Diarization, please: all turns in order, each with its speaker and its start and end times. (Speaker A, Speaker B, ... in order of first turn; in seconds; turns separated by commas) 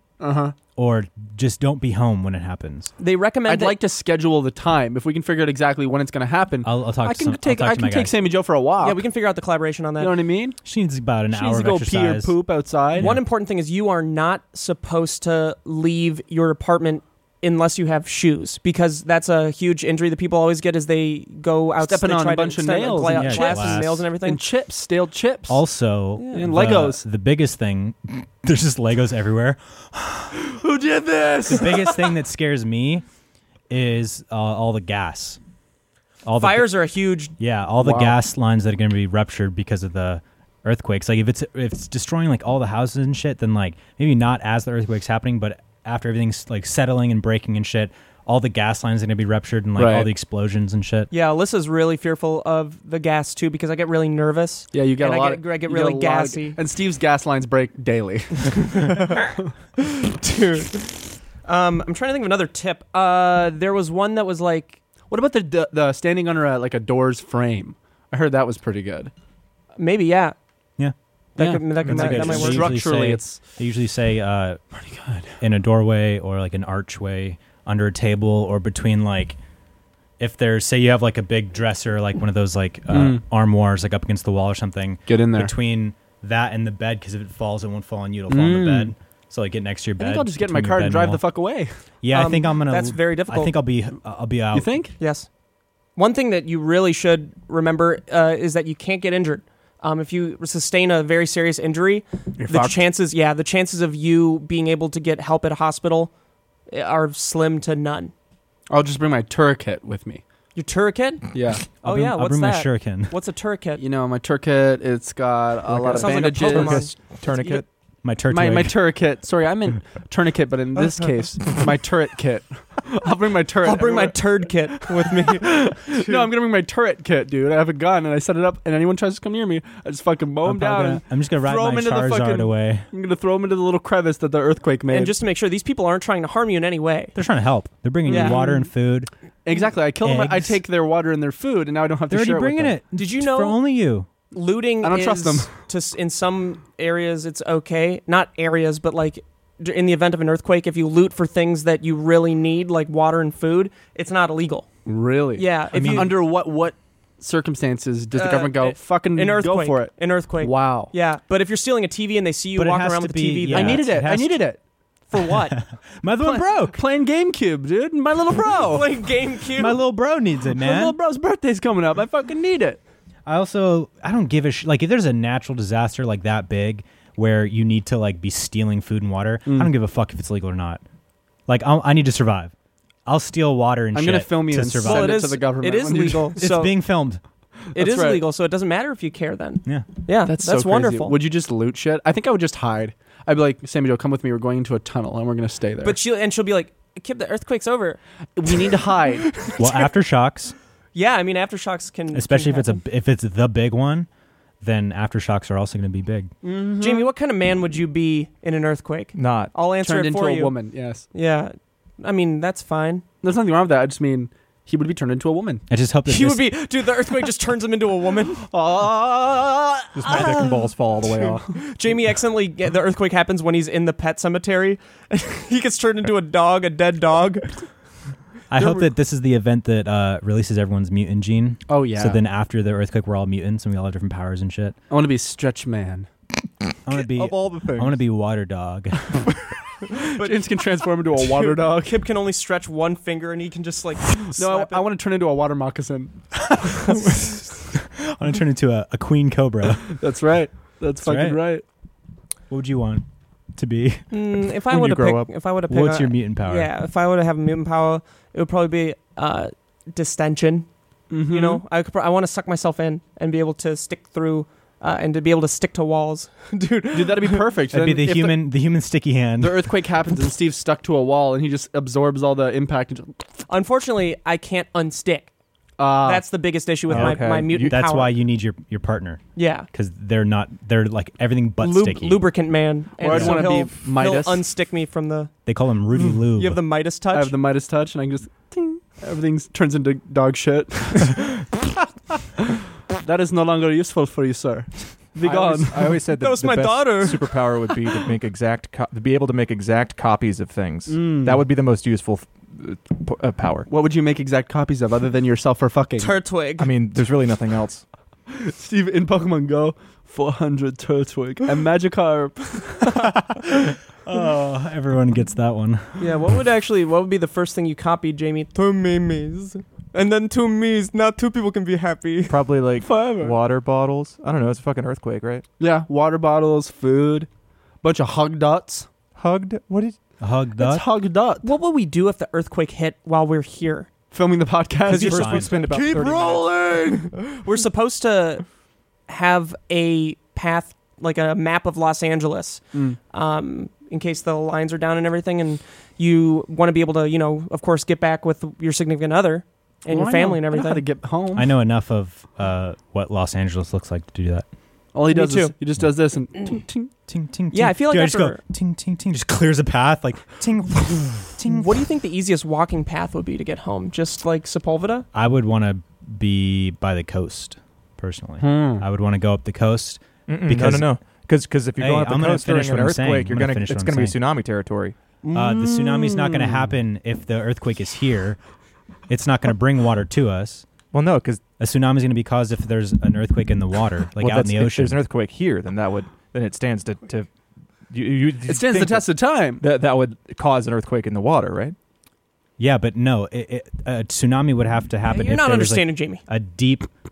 Speaker A: 0.2-0.6, Speaker B: 0.8-2.9, Speaker C: 3.0-3.8, Speaker A: 3.5-9.1, Speaker B: 6.6-8.1, Speaker C: 8.8-10.1, Speaker A: 10.0-10.6, Speaker B: 10.6-12.3, Speaker A: 11.3-13.1, Speaker B: 12.9-13.2, Speaker C: 12.9-24.4, Speaker A: 21.8-25.6, Speaker B: 23.0-24.0, Speaker B: 25.5-30.3, Speaker C: 26.2-26.5, Speaker A: 26.3-27.0, Speaker A: 30.4-32.1, Speaker B: 31.5-33.0, Speaker B: 33.7-35.4, Speaker B: 36.2-36.8, Speaker C: 36.4-37.3, Speaker B: 37.4-51.1, Speaker A: 37.8-38.2, Speaker A: 49.8-50.1, Speaker C: 51.1-56.6, Speaker A: 54.7-59.0, Speaker C: 58.8-59.3, Speaker C: 60.0-64.8, Speaker A: 65.1-69.1, Speaker C: 69.8-70.3, Speaker B: 70.8-74.8, Speaker C: 71.4-72.8, Speaker A: 71.8-73.4, Speaker A: 74.7-75.3, Speaker B: 75.4-79.4, Speaker B: 80.2-91.2, Speaker A: 82.9-83.2, Speaker A: 85.1-85.5, Speaker A: 88.3-88.9, Speaker A: 90.0-91.7, Speaker B: 92.0-94.7, Speaker C: 92.1-93.5, Speaker A: 94.5-94.9, Speaker C: 95.0-95.3, Speaker C: 96.0-106.1, Speaker A: 102.4-102.8, Speaker C: 106.7-108.1, Speaker A: 108.7-110.2, Speaker C: 110.5-113.8, Speaker A: 111.3-111.6, Speaker B: 111.8-113.2, Speaker A: 113.8-116.9, Speaker D: 115.7-117.7, Speaker C: 115.9-117.0, Speaker A: 117.4-117.6, Speaker B: 118.0-118.8, Speaker A: 118.3-135.1, Speaker C: 123.6-126.1, Speaker B: 130.4-132.9, Speaker C: 134.9-137.2, Speaker B: 137.1-139.1, Speaker A: 138.0-138.7, Speaker C: 138.1-138.4, Speaker A: 139.4-142.7, Speaker B: 140.0-140.6, Speaker B: 142.1-144.1, Speaker C: 142.9-143.6, Speaker C: 144.3-154.7, Speaker A: 144.8-145.5, Speaker A: 154.8-160.9, Speaker C: 155.3-156.1, Speaker B: 155.7-156.2, Speaker C: 158.1-163.9, Speaker B: 162.6-164.4, Speaker A: 163.5-164.6, Speaker C: 165.1-165.6, Speaker B: 165.5-166.8, Speaker A: 166.2-168.9, Speaker C: 168.7-169.8, Speaker B: 169.6-170.9, Speaker A: 170.5-172.8, Speaker B: 173.2-180.8, Speaker A: 179.5-179.7, Speaker B: 181.5-182.5, Speaker B: 183.1-185.3, Speaker A: 183.9-186.3, Speaker C: 184.8-186.7, Speaker B: 186.4-187.2, Speaker A: 187.7-188.2, Speaker C: 187.7-191.1, Speaker A: 190.2-196.0, Speaker C: 195.8-198.0, Speaker A: 198.3-199.4, Speaker B: 199.4-200.5, Speaker C: 200.9-202.8, Speaker B: 202.1-204.1, Speaker B: 204.6-206.3, Speaker A: 206.4-207.1, Speaker C: 206.8-210.6, Speaker D: 209.1-209.5, Speaker A: 209.8-211.1, Speaker C: 211.1-213.0, Speaker A: 213.2-215.6, Speaker B: 215.7-216.5, Speaker C: 216.1-218.4, Speaker A: 218.5-221.5, Speaker D: 219.9-221.4, Speaker C: 221.5-227.6, Speaker B: 228.5-234.8, Speaker A: 231.7-232.2, Speaker A: 234.9-236.1, Speaker B: 236.8-239.3, Speaker D: 237.0-238.0, Speaker A: 239.9-242.0, Speaker C: 240.0-244.8, Speaker A: 244.2-246.7, Speaker B: 246.6-250.0, Speaker A: 249.9-251.6, Speaker B: 251.0-251.4, Speaker B: 252.5-253.0, Speaker B: 253.6-254.0, Speaker C: 254.1-260.7, Speaker B: 254.7-256.7, Speaker A: 261.1-261.6, Speaker C: 261.2-267.4, Speaker A: 266.9-268.4, Speaker B: 267.7-269.7, Speaker A: 269.4-273.2, Speaker C: 273.5-275.3, Speaker A: 275.8-276.2, Speaker C: 276.0-278.1, Speaker D: 276.9-277.8, Speaker B: 276.9-282.2, Speaker C: 279.4-279.7, Speaker C: 281.6-285.3, Speaker A: 283.0-284.4, Speaker B: 283.1-283.4, Speaker B: 285.4-286.6, Speaker C: 286.4-287.3, Speaker A: 287.1-291.5, Speaker A: 292.9-296.0, Speaker D: 295.2-303.7, Speaker C: 296.2-297.5, Speaker A: 300.9-301.4, Speaker A: 303.7-306.1, Speaker C: 306.0-306.7, Speaker D: 306.6-307.8, Speaker A: 308.3-313.0, Speaker B: 313.3-316.2, Speaker C: 316.0-322.4, Speaker D: 322.3-325.4, Speaker A: 322.8-323.4, Speaker A: 325.6-327.3, Speaker A: 327.8-328.9, Speaker D: 329.1-330.0, Speaker B: 330.2-330.9, Speaker A: 330.6-331.5, Speaker C: 331.4-333.9, Speaker A: 334.1-337.1, Speaker D: 334.8-336.5, Speaker B: 334.8-335.5, Speaker C: 337.1-338.4, Speaker C: 339.1-350.8, Speaker A: 342.7-343.0, Speaker A: 349.9-351.5, Speaker B: 351.3-354.4, Speaker A: 354.9-356.9, Speaker C: 355.1-355.5, Speaker B: 357.1-361.8, Speaker C: 357.5-358.4, Speaker C: 361.4-365.1, Speaker B: 365.1-370.9, Speaker A: 368.4-368.8, Speaker D: 370.3-374.9, Speaker B: 371.8-374.2, Speaker A: 375.2-376.6, Speaker B: 375.3-378.4, Speaker B: 379.1-380.6, Speaker D: 380.9-381.4, Speaker B: 381.6-385.0, Speaker D: 384.2-387.3, Speaker D: 387.9-391.8, Speaker A: 388.4-389.6, Speaker B: 392.6-396.9, Speaker C: 395.1-396.2